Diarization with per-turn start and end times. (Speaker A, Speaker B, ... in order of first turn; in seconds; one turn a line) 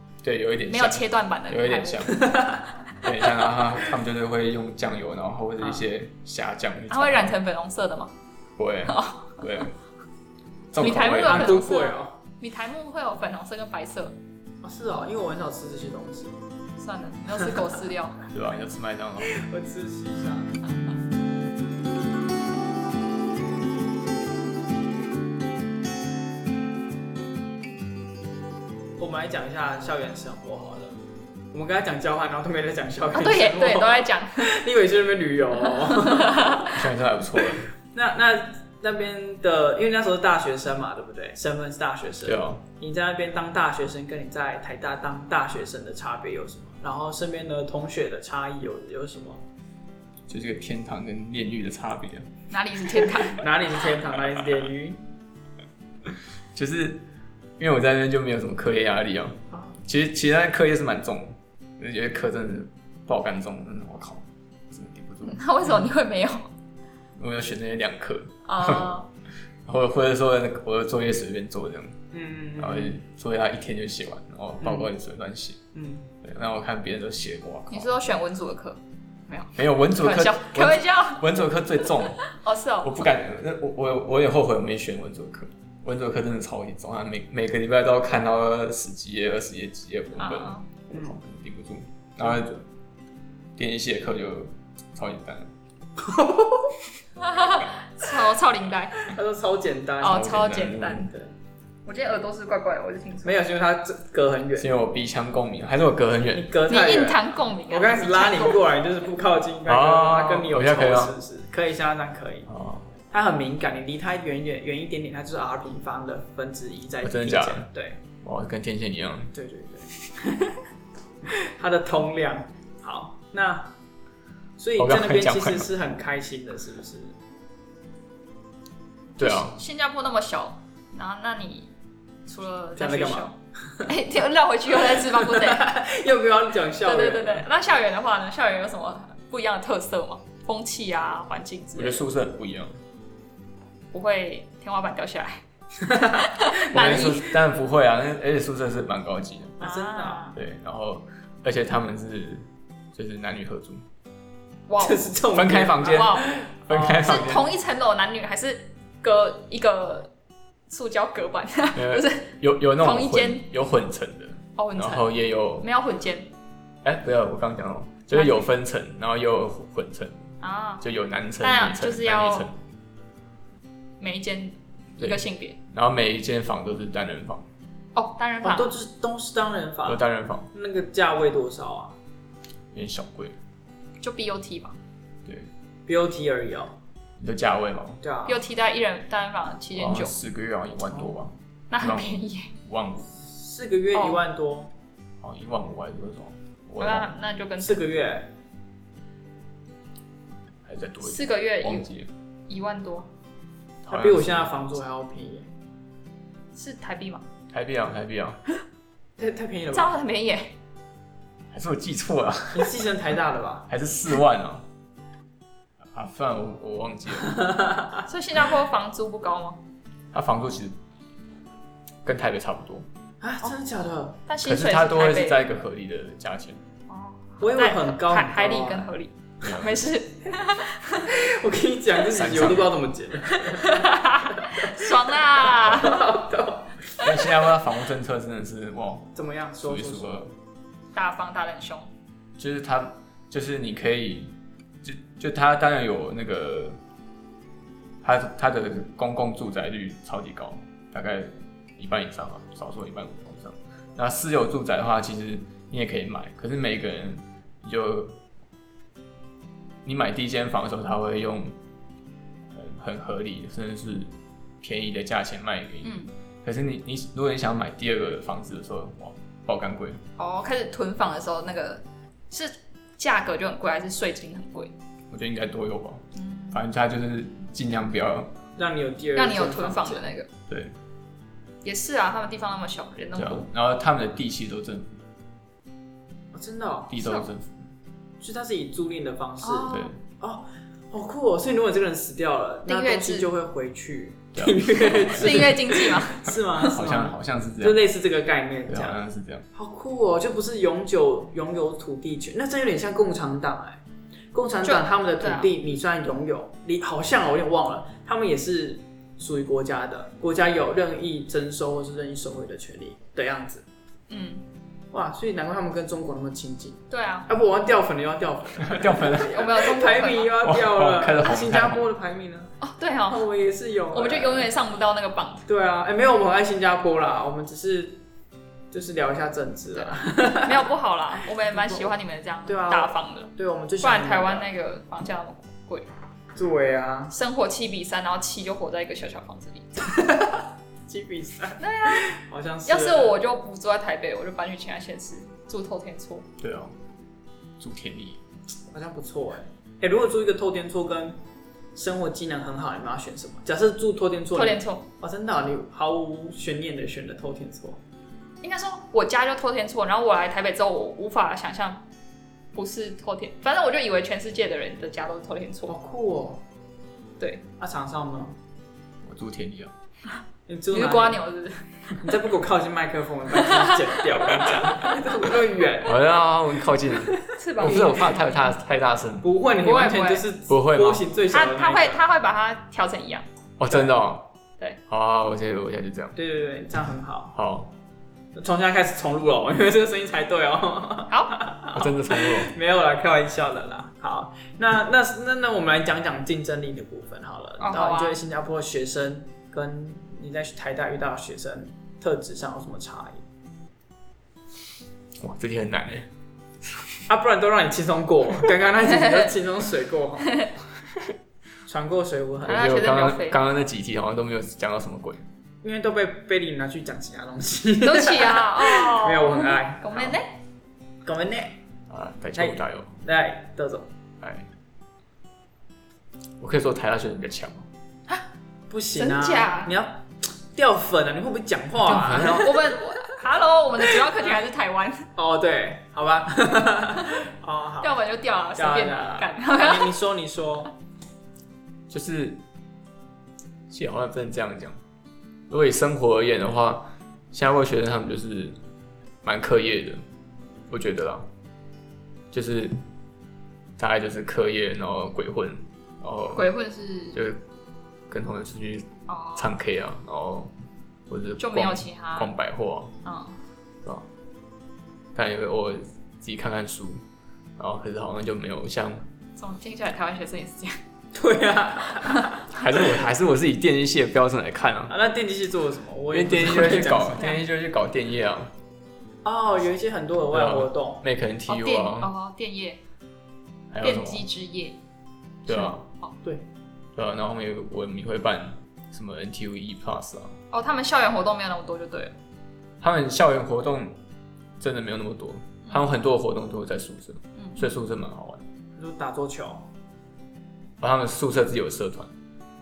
Speaker A: 0.2-2.4
Speaker B: 0.7-2.3
Speaker C: 2.2-2.6
Speaker A: 3.0-7.4
Speaker C: 5.6-5.8
Speaker B: 6.9-8.1
Speaker A: 8.6-9.7
Speaker B: 8.9-9.7
Speaker A: 10.7-11.6
Speaker B: 10.8-14.2
Speaker C: 10.9-12.1
Speaker C: 14.6-16.4
Speaker B: 16.8-18.2
Speaker A: 18.3-19.4
Speaker C: 19.2-20.6
Speaker C: 29.0-30.9
Speaker C: 31.5-36.8
Speaker B: 33.1-34.5
Speaker B: 35.8-36.8
Speaker A: 36.7-37.7
Speaker C: 37.4-49.4
Speaker A: 42.2-42.6
Speaker A: 50.3-52.3
Speaker B: 52.5-53.4
Speaker C: 53.2-55.0
Speaker A: 56.5-57.0
Speaker A: 57.6-65.4
Speaker B: 65.2-66.5
Speaker A: 67.2-69.0
Speaker B: 68.5-69.1
Speaker A: 69.7-72.0
Speaker C: 72.1-73.0
Speaker A: 72.6-75.6
Speaker C: 74.6-74.9
Speaker C: 75.7-76.1
Speaker A: 76.2-77.9
Speaker B: 77.7-81.2
Speaker A: 79.5-82.3
Speaker B: 82.2-82.9
Speaker A: 82.8-92.7
Speaker B: 90.2-90.7
Speaker C: 90.9-91.2
Speaker A: 93.5-95.5
Speaker C: 96.0-96.7
Speaker B: 97.2-99.1
Speaker C: 99.0-100.3
Speaker B: 100.0-101.1
Speaker A: 100.0-101.1
Speaker C: 101.0-101.3
Speaker B: 101.8-103.4
Speaker C: 103.2-104.7
Speaker A: 104.6-106.5
Speaker C: 106.3-112.5
Speaker B: 106.7-108.6
Speaker A: 109.7-111.1
Speaker A: 112.5-112.9
Speaker C: 113.1-118.0
Speaker A: 117.0-119.3
Speaker C: 119.3-120.6
Speaker C: 121.2-123.7
Speaker C: 124.6-127.2
Speaker A: 124.8-125.7
Speaker A: 129.2-129.6
Speaker B: 129.2-131.7
Speaker B: 132.2-135.7
Speaker C: 132.8-133.9
Speaker C: 134.8-137.5
Speaker B: 136.8-142.0
Speaker A: 141.7-142.8
Speaker B: 143.9-145.4
Speaker C: 145.9-146.2
Speaker B: 146.0-147.3
Speaker A: 146.7-149.6
Speaker C: 149.6-150.3
Speaker B: 149.6-150.3
Speaker A: 150.3-153.8
Speaker B: 154.7-155.1
Speaker C: 154.8-157.2
Speaker A: 155.3-157.5
Speaker B: 155.8-156.3
Speaker B: 156.9-160.1
Speaker B: 160.7-163.4
Speaker A: 161.7-165.7
Speaker B: 164.6-166.3
Speaker A: 166.8-172.6
Speaker B: 168.1-168.5
Speaker B: 170.4-170.8
Speaker B: 171.4-172.5
Speaker B: 174.0-175.6
Speaker A: 175.0-177.5
Speaker B: 177.9-178.7
Speaker C: 178.4-181.9
Speaker A: 179.8-180.5
Speaker A: 182.7-183.4
Speaker B: 184.0-184.8
Speaker A: 185.2-185.5
Speaker C: 185.9-186.7
Speaker A: 187.2-188.0
Speaker C: 188.0-188.4
Speaker B: 188.2-190.2
Speaker A: 189.7-193.1
Speaker B: 191.7-192.5
Speaker C: 193.2-194.7
Speaker B: 193.9-194.2
Speaker A: 195.2-197.1
Speaker B: 196.8-197.9
Speaker C: 197.6-198.3
Speaker A: 200.7-202.1
Speaker B: 201.0-201.9
Speaker B: 202.5-203.1
Speaker A: 203.8-204.5
Speaker C: 203.9-205.5
Speaker B: 206.5-207.2
Speaker A: 207.5-208.4
Speaker C: 209.2-209.9
Speaker B: 209.7-210.6
Speaker A: 211.5-212.8
Speaker C: 212.5-213.7
Speaker A: 213.7-214.7
Speaker A: 215.9-217.4
Speaker C: 217.5-217.8
Speaker B: 218.1-219.6
Speaker A: 220.1-220.8
Speaker A: 222.0-222.9
Speaker C: 223.2-224.2
Speaker B: 224.3-225.5
Speaker A: 224.4-226.6
Speaker B: 226.9-231.1
Speaker C: 227.4-228.9
Speaker A: 229.4-229.8
Speaker C: 231.1-237.1
Speaker A: 232.1-232.7
Speaker B: 233.3-236.1
Speaker A: 237.0-240.3
Speaker C: 239.2-240.1
Speaker B: 240.9-241.9
Speaker A: 242.4-246.8
Speaker A: 248.0-258.2
Speaker A: 259.8-261.6
Speaker A: 262.5-270.0
Speaker B: 265.8-266.1
Speaker B: 270.2-274.7
Speaker A: 275.1-278.4
Speaker B: 276.1-276.6
Speaker C: 278.6-280.1
Speaker B: 279.1-280.3
Speaker A: 280.5-280.7
Speaker B: 281.6-283.5
Speaker A: 283.2-285.0
Speaker C: 286.3-287.0
Speaker A: 286.9-287.7
Speaker C: 288.2-299.0
Speaker B: 289.4-289.9
Speaker A: 289.7-290.0
Speaker B: 292.7-293.3
Speaker A: 294.3-295.5
Speaker B: 294.8-296.4
Speaker A: 296.2-297.8
Speaker A: 298.7-299.4
Speaker C: 299.5-303.8
Speaker C: 304.3-313.6
Speaker B: 304.6-305.5
Speaker B: 314.1-314.4
Speaker C: 314.9-322.6
Speaker B: 316.9-317.3
Speaker A: 318.6-319.6
Speaker B: 319.2-320.4
Speaker A: 320.4-321.8
Speaker B: 322.6-323.3
Speaker C: 323.1-324.5
Speaker B: 323.9-325.4
Speaker C: 325.5-328.0
Speaker C: 328.7-330.7
Speaker B: 329.7-335.9
Speaker C: 331.5-331.9
Speaker C: 332.4-334.5
Speaker C: 336.3-337.1
Speaker B: 337.1-339.8
Speaker C: 339.9-343.1
Speaker B: 341.6-342.1
Speaker B: 342.6-346.2
Speaker A: 346.4-346.7
Speaker A: 347.6-348.2
Speaker C: 348.7-351.2
Speaker C: 351.7-357.8
Speaker B: 354.3-354.8
Speaker B: 358.4-361.8
Speaker B: 362.5-365.7
Speaker C: 365.7-366.4
Speaker C: 367.6-368.4
Speaker A: 369.0-369.7
Speaker C: 370.5-371.2
Speaker B: 370.7-371.9
Speaker C: 372.0-376.0
Speaker B: 373.4-375.0
Speaker A: 375.8-379.2
Speaker C: 376.9-378.1
Speaker B: 377.3-378.6
Speaker C: 379.2-382.0
Speaker B: 379.6-380.2
Speaker A: 380.5-381.1
Speaker B: 381.3-383.2
Speaker A: 383.6-384.3
Speaker C: 383.7-384.0
Speaker A: 384.9-386.1
Speaker C: 386.1-387.3
Speaker A: 387.3-387.7
Speaker C: 388.3-403.2
Speaker B: 391.1-391.4
Speaker A: 391.7-392.5
Speaker B: 397.6-398.2
Speaker A: 405.2-406.1
Speaker A: 406.6-407.0
Speaker C: 407.1-410.4
Speaker C: 411.6-412.6
Speaker A: 412.4-415.2
Speaker B: 412.4-413.4
Speaker C: 415.6-420.1
Speaker B: 417.8-420.3
Speaker C: 421.0-421.6
Speaker A: 421.9-423.0
Speaker C: 422.3-423.9
Speaker A: 424.2-424.5
Speaker A: 426.4-427.7
Speaker C: 428.7-432.6
Speaker B: 428.9-429.7
Speaker A: 431.9-432.6
Speaker B: 431.9-435.1
Speaker C: 435.1-438.0
Speaker B: 437.8-439.9
Speaker C: 438.6-440.7
Speaker A: 441.9-442.4
Speaker A: 443.7-444.8
Speaker A: 445.5-448.6
Speaker A: 449.2-450.0
Speaker A: 450.7-451.3
Speaker A: 452.3-452.8
Speaker A: 453.8-456.5
Speaker B: 456.3-457.2
Speaker A: 457.1-457.4
Speaker A: 458.1-460.5
Speaker B: 459.1-459.5
Speaker A: 461.1-462.9
Speaker B: 461.4-462.3
Speaker B: 463.0-463.4
Speaker A: 465.1-467.0
Speaker A: 467.6-469.1
Speaker B: 469.4-470.8
Speaker C: 471.1-472.8
Speaker A: 472.5-474.9
Speaker C: 474.9-477.2
Speaker A: 476.1-478.5
Speaker B: 477.1-477.4
Speaker C: 479.2-481.0
Speaker A: 480.3-482.1
Speaker B: 481.5-482.8
Speaker A: 483.7-484.2
Speaker B: 483.8-484.8
Speaker A: 485.4-485.8
Speaker B: 485.5-486.1
Speaker A: 486.9-490.4
Speaker B: 490.5-492.1
Speaker A: 492.8-494.0
Speaker A: 494.6-498.4
Speaker B: 497.4-497.6
Speaker C: 498.8-499.6
Speaker A: 500.8-502.1